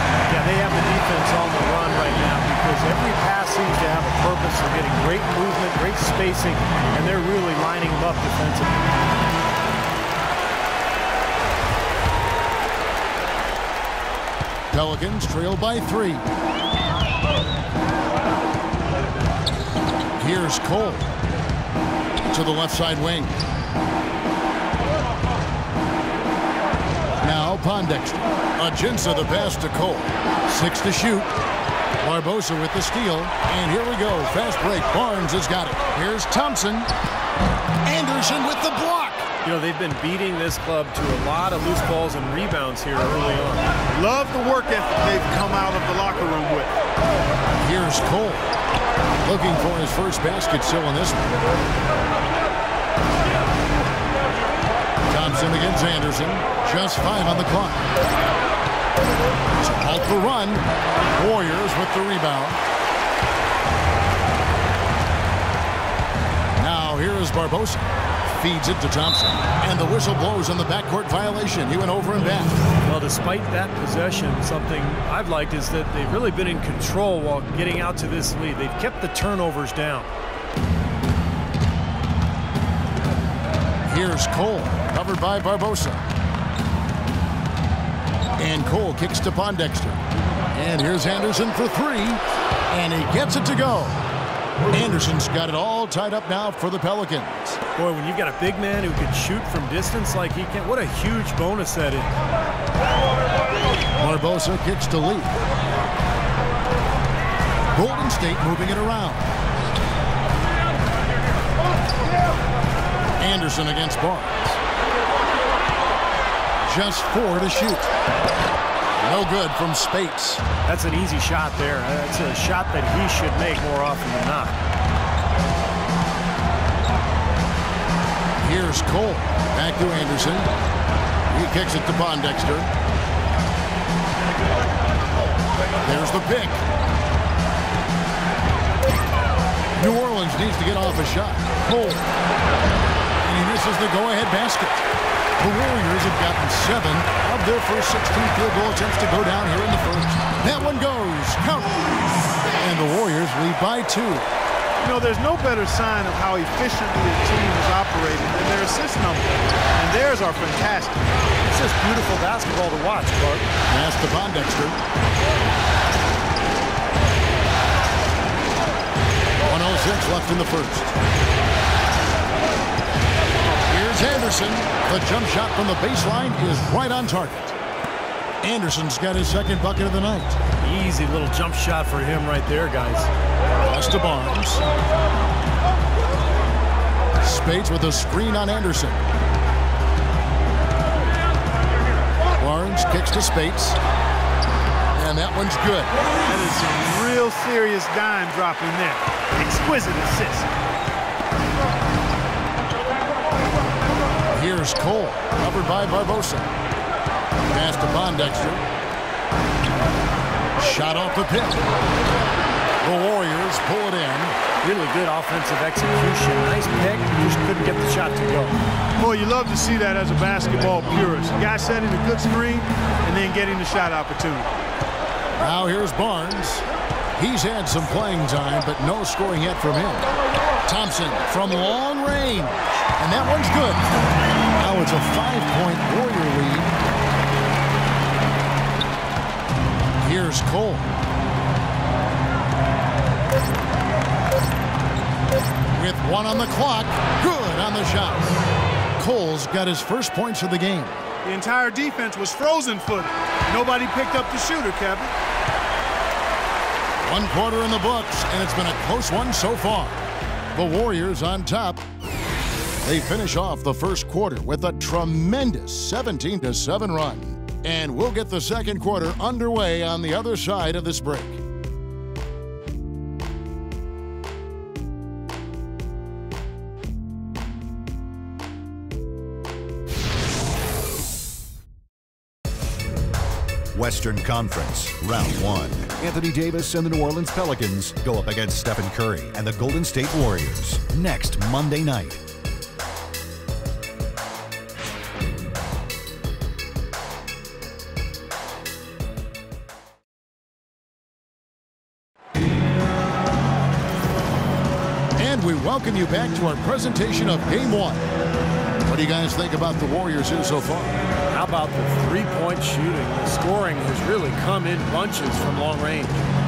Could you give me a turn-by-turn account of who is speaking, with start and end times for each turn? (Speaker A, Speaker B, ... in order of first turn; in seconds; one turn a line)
Speaker A: 0.3-8.8
Speaker B: 14.7-16.2
Speaker B: 20.2-21.1
Speaker B: 22.3-23.4
Speaker B: 27.2-31.3
Speaker B: 32.0-36.9
Speaker B: 37.8-39.2
Speaker A: 39.4-43.6
Speaker C: 43.9-46.8
Speaker B: 47.6-48.5
Speaker B: 49.2-51.4
Speaker B: 55.1-57.9
Speaker B: 59.6-62.6
Speaker B: 66.6-72.6
Speaker A: 72.8-80.1
Speaker B: 83.8-86.0
Speaker B: 88.4-90.0
Speaker B: 90.5-94.0
Speaker B: 94.7-97.6
Speaker A: 97.8-102.1
Speaker B: 104.0-105.4
Speaker B: 107.7-109.3
Speaker B: 113.2-114.6
Speaker B: 116.6-117.9
Speaker B: 119.0-120.4
Speaker A: 120.7-124.5
Speaker B: 128.4-130.5
Speaker B: 131.3-132.7
Speaker B: 135.8-136.6
Speaker B: 139.8-142.1
Speaker B: 143.2-154.3
Speaker C: 154.8-161.0
Speaker A: 161.5-163.4
Speaker B: 163.7-164.8
Speaker B: 169.4-170.9
Speaker B: 173.7-177.6
Speaker B: 178.4-180.4
Speaker A: 180.6-183.1
Speaker B: 183.7-184.6
Speaker B: 187.2-189.0
Speaker B: 192.4-193.8
Speaker B: 194.9-195.9
Speaker C: 196.2-200.5
Speaker B: 204.3-206.5
Speaker B: 207.5-208.6
Speaker B: 210.6-211.7
Speaker B: 212.8-214.4
Speaker A: 214.6-218.5
Speaker C: 219.0-224.5
Speaker B: 225.4-226.7
Speaker B: 227.2-230.1
Speaker B: 230.7-233.9
Speaker B: 234.6-236.8
Speaker B: 240.0-240.9
Speaker B: 245.7-248.4
Speaker B: 248.9-251.0
Speaker C: 251.2-255.1
Speaker B: 257.0-260.0
Speaker B: 260.5-261.8
Speaker B: 262.8-271.4
Speaker D: 283.7-292.2
Speaker B: 305.1-308.0
Speaker B: 308.8-311.0
Speaker A: 311.3-316.2